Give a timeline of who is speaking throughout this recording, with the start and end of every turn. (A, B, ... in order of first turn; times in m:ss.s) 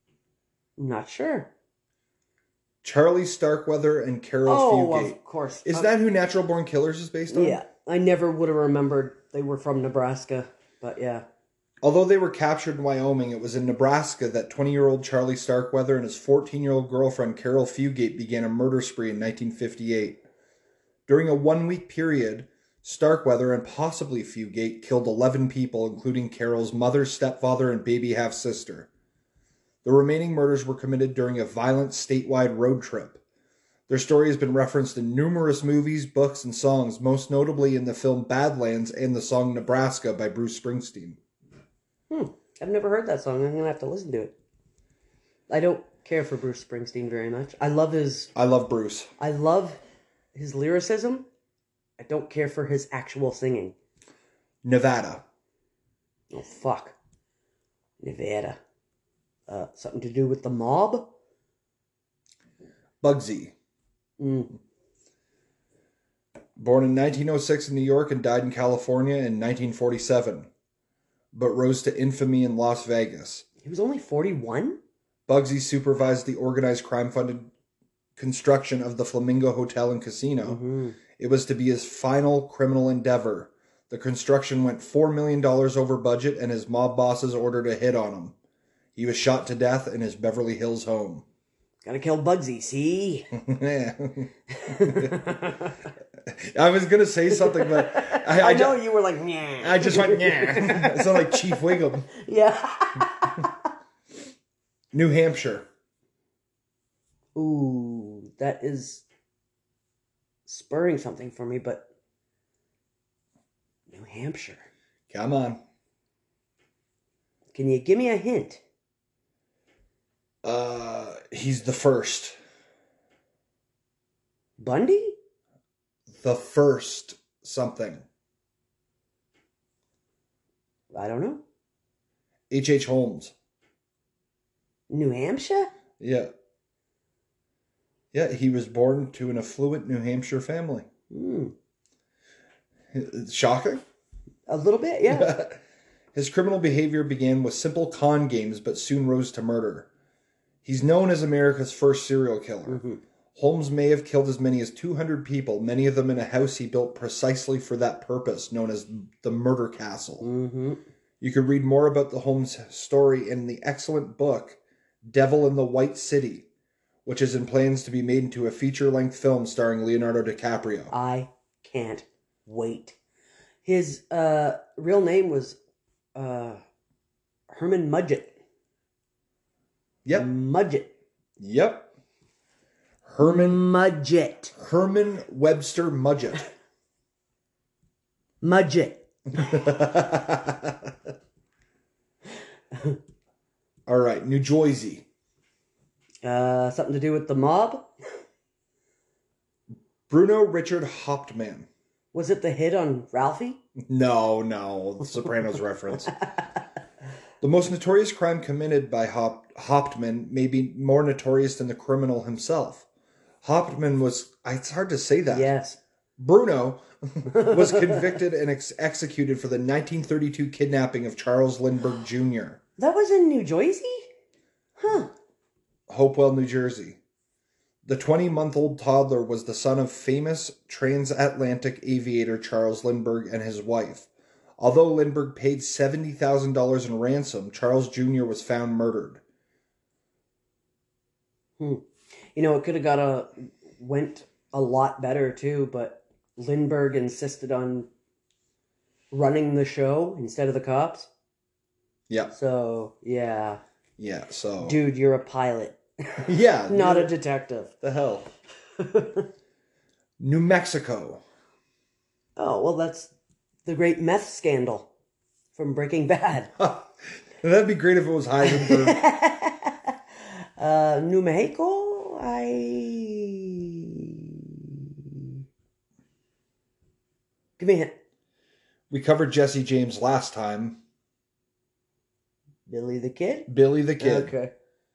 0:00.8-0:01.5 A
0:02.8-0:07.6 B
0:04.4-0:05.9 A
0:07.3-0:11.2 A
0:11.8-0:20.2 B
0:21.1-0:28.9 B
0:29.8-0:33.2 B
0:33.9-0:41.2 B
0:42.1-0:44.3 A
0:45.5-0:48.3 A
0:48.3-0:49.1 B
0:49.2-0:49.8 A
0:50.3-0:51.2 A
0:52.0-0:53.7 A
0:54.6-0:55.2 B
0:56.3-0:57.0 A
0:58.0-0:58.6 A
0:59.5-1:01.1 A
1:03.0-1:03.5 B
1:04.2-1:04.6 A
1:06.6-1:10.5 B
1:11.3-1:13.4 B
1:13.6-1:14.8 A
1:15.3-1:17.5 B
1:18.2-1:20.6 B
1:20.4-1:21.0 A
1:21.2-1:28.3 B
1:29.0-1:31.2 B
1:31.8-1:33.3 A
1:33.3-1:35.2 B
1:34.5-1:35.9 A
1:36.2-1:38.8 B
1:37.3-1:43.7 A
1:39.6-1:42.1 B
1:44.9-1:45.7 B
1:47.3-1:49.0 A
1:50.4-1:51.8 A
1:53.9-1:54.7 A
1:55.1-1:55.6 B
1:57.5-1:58.6 A
2:00.4-2:02.3 B
2:04.6-2:05.2 A
2:06.1-2:08.0 B
2:10.9-2:11.4 A
2:12.5-2:13.3 B
2:14.9-2:15.7 A
2:16.0-2:16.3 B
2:18.1-2:20.8 B
2:21.1-2:21.5 A
2:22.9-2:23.8 B
2:24.5-2:25.4 A
2:25.1-2:25.6 B
2:26.1-2:29.9 B
2:30.6-2:32.8 B
2:32.7-2:33.0 A
2:33.3-2:40.2 B
2:40.2-2:40.8 A
2:41.2-2:46.4 B
2:47.0-2:50.9 B
2:50.9-2:53.0 A
2:53.6-2:55.6 A
2:56.1-2:56.6 A
2:57.5-2:58.4 A
3:00.1-3:00.9 A
3:01.4-3:01.9 B
3:03.0-3:03.6 B
3:03.2-3:04.5 A
3:04.6-3:06.4 B
3:08.4-3:09.7 A
3:09.3-3:10.9 B
3:13.9-3:15.0 B
3:16.2-3:17.9 A
3:20.1-3:21.7 B
3:22.1-3:23.6 A
3:23.8-3:26.1 B
3:27.4-3:32.8 B
3:33.4-3:35.5 B
3:35.3-3:35.8 A
3:36.2-3:42.6 B
3:37.3-3:38.2 A
3:42.8-3:44.1 A
3:44.8-3:45.1 A
3:45.9-3:47.0 B
3:47.8-3:59.2 B
4:01.6-4:07.9 A
4:09.1-4:11.1 A
4:12.3-4:13.6 A
4:14.0-4:14.8 B
4:14.6-4:17.7 A
4:16.2-4:17.1 B
4:17.8-4:18.3 B
4:18.8-4:19.3 A
4:20.2-4:21.2 B
4:22.4-4:23.1 A
4:23.6-4:24.9 A
4:25.5-4:26.5 A
4:26.6-4:29.0 B
4:28.4-4:30.0 A
4:30.6-4:35.4 A
4:37.6-4:37.9 A
4:38.9-4:40.8 B
4:42.7-4:44.5 A
4:43.5-4:44.3 B